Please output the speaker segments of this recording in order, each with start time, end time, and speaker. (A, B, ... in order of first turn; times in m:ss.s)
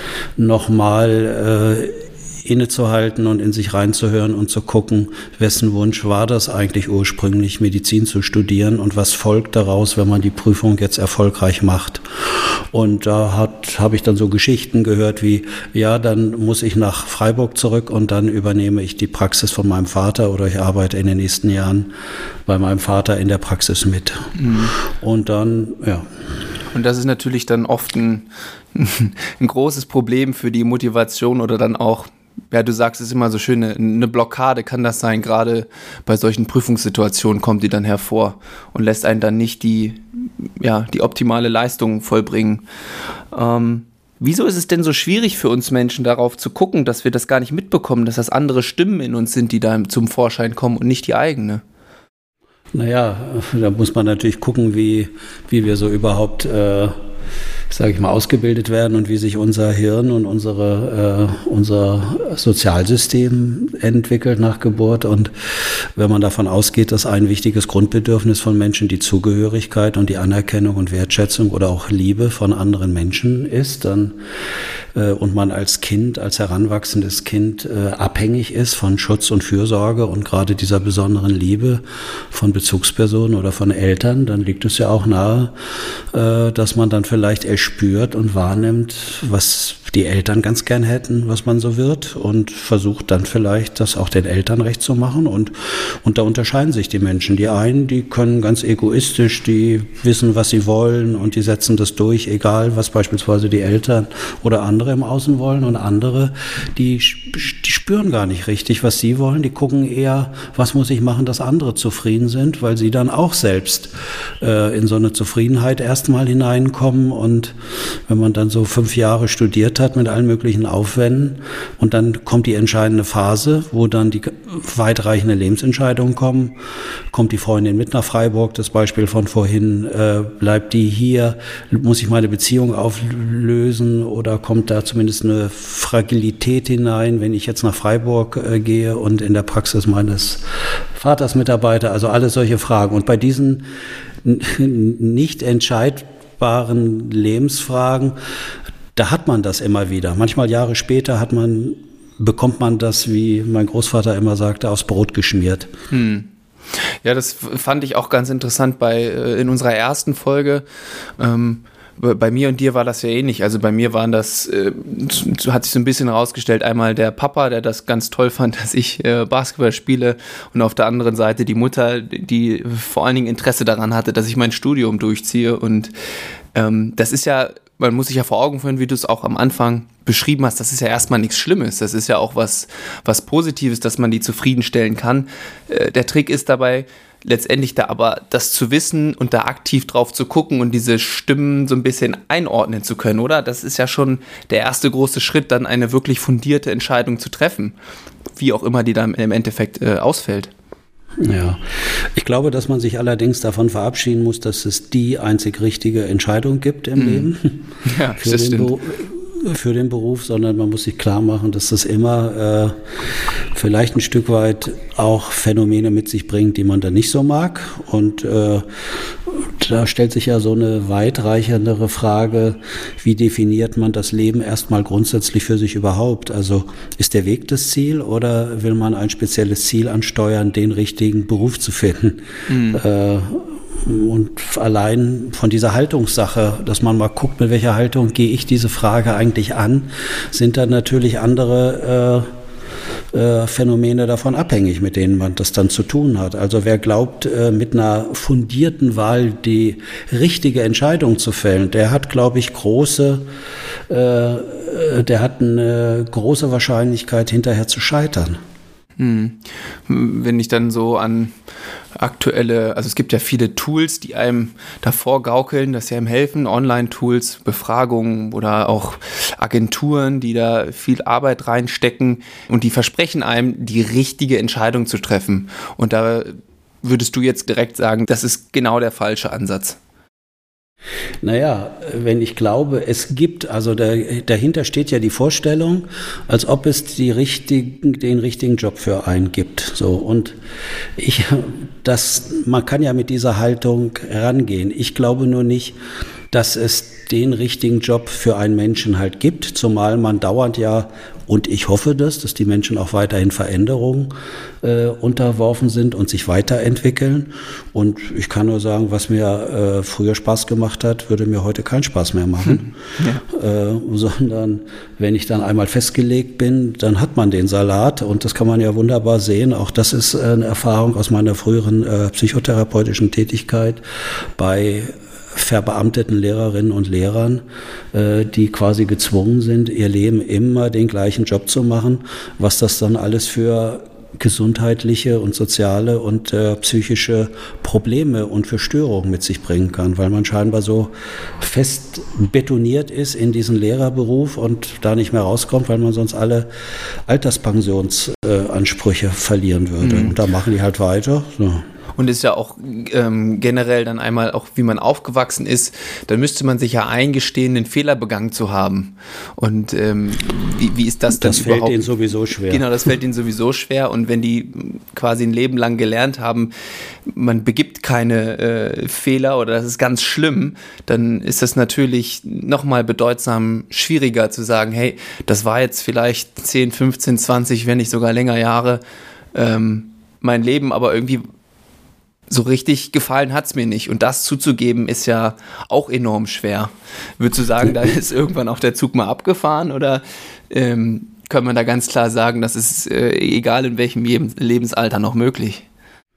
0:00.4-0:21.9 A
0:22.5-0:26.1 A
0:24.4-0:24.7 B
0:26.7-0:40.0 B
0:40.6-0:42.6 B
0:43.3-0:51.6 B
0:52.7-0:56.9 A
0:57.7-1:14.2 A
1:14.9-1:25.5 A
1:26.1-1:57.6 A
1:58.1-2:06.6 A
2:07.1-2:23.6 A
2:24.2-2:28.2 A
2:29.0-2:35.7 A
2:35.9-2:40.6 B
2:41.2-2:55.9 B
2:56.5-3:17.8 B
3:18.4-3:20.5 B
3:21.2-3:27.6 A
3:27.0-3:27.3 B
3:27.8-3:28.7 B
3:28.2-3:32.8 A
3:33.5-4:02.3 A
3:52.5-3:52.8 B
4:03.1-4:13.3 A
4:13.9-4:18.4 A
4:19.0-4:21.4 B
4:22.0-4:39.8 B
4:41.2-4:50.4 A
4:51.0-4:55.8 A
4:56.3-5:23.8 A
5:12.4-5:13.2 B
5:24.4-5:27.4 A
5:27.9-5:46.5 A
5:47.1-5:51.6 A
5:49.8-5:50.2 B
5:52.0-6:01.8 B
6:01.1-6:02.7 A
6:02.5-6:06.5 B
6:07.1-6:18.8 B
6:19.3-6:21.2 B
6:22.3-6:35.6 B